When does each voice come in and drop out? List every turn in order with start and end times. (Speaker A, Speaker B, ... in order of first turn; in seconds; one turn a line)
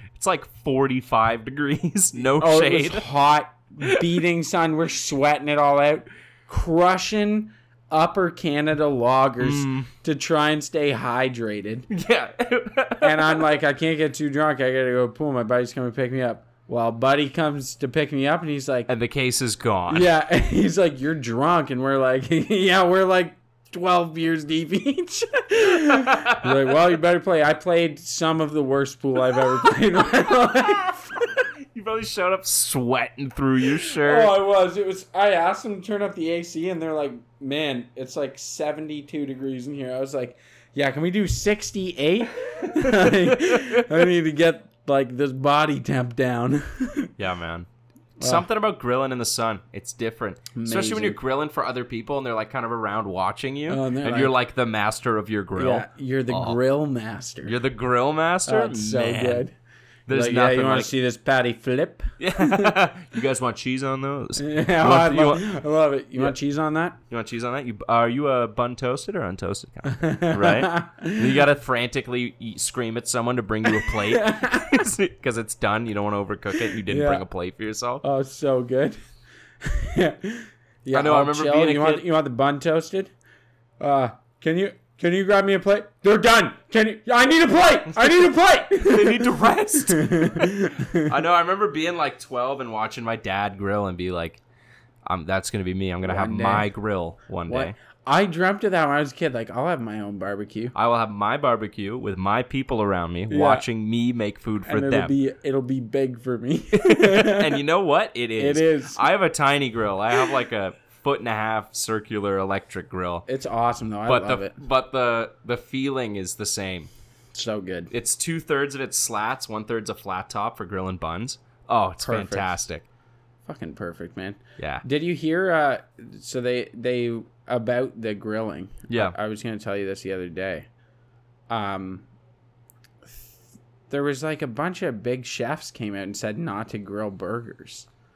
Speaker A: 0.1-3.0
Speaker B: 2.4-11.9
Speaker A: 9.4-9.9
Speaker A: 11.9-13.4
Speaker B: 13.0-18.9
Speaker A: 18.9-20.1
Speaker B: 19.9-31.2
Speaker A: 25.8-26.6
Speaker A: 30.5-34.3
Speaker B: 33.8-47.1
Speaker A: 42.5-44.0
Speaker A: 47.2-47.7
Speaker B: 48.2-48.5
Speaker A: 48.2-56.6
Speaker B: 50.5-51.2
Speaker B: 53.7-54.3
Speaker B: 55.5-57.5
Speaker A: 57.4-59.5
Speaker B: 58.5-59.5
Speaker A: 60.1-60.9
Speaker B: 60.1-62.8
Speaker A: 62.2-65.5
Speaker B: 64.4-67.0
Speaker A: 67.1-78.0
Speaker B: 69.9-71.4
Speaker B: 73.7-74.9
Speaker B: 76.6-77.2
Speaker B: 78.0-79.0
Speaker B: 79.6-83.1
Speaker A: 80.9-82.0
Speaker B: 83.8-91.1
Speaker A: 88.7-94.4
Speaker A: 95.1-97.7
Speaker B: 96.0-96.7
Speaker B: 97.5-100.7
Speaker A: 100.7-105.1
Speaker B: 103.3-103.7
Speaker B: 104.7-107.6
Speaker A: 106.7-113.2
Speaker B: 108.4-109.0
Speaker B: 113.3-114.5
Speaker A: 114.1-116.9
Speaker B: 117.3-117.9
Speaker A: 117.9-122.8
Speaker B: 122.0-122.6
Speaker B: 123.5-130.7
Speaker A: 124.6-124.8
Speaker A: 128.9-129.2
Speaker B: 131.5-132.1
Speaker B: 133.0-133.4
Speaker B: 133.9-137.9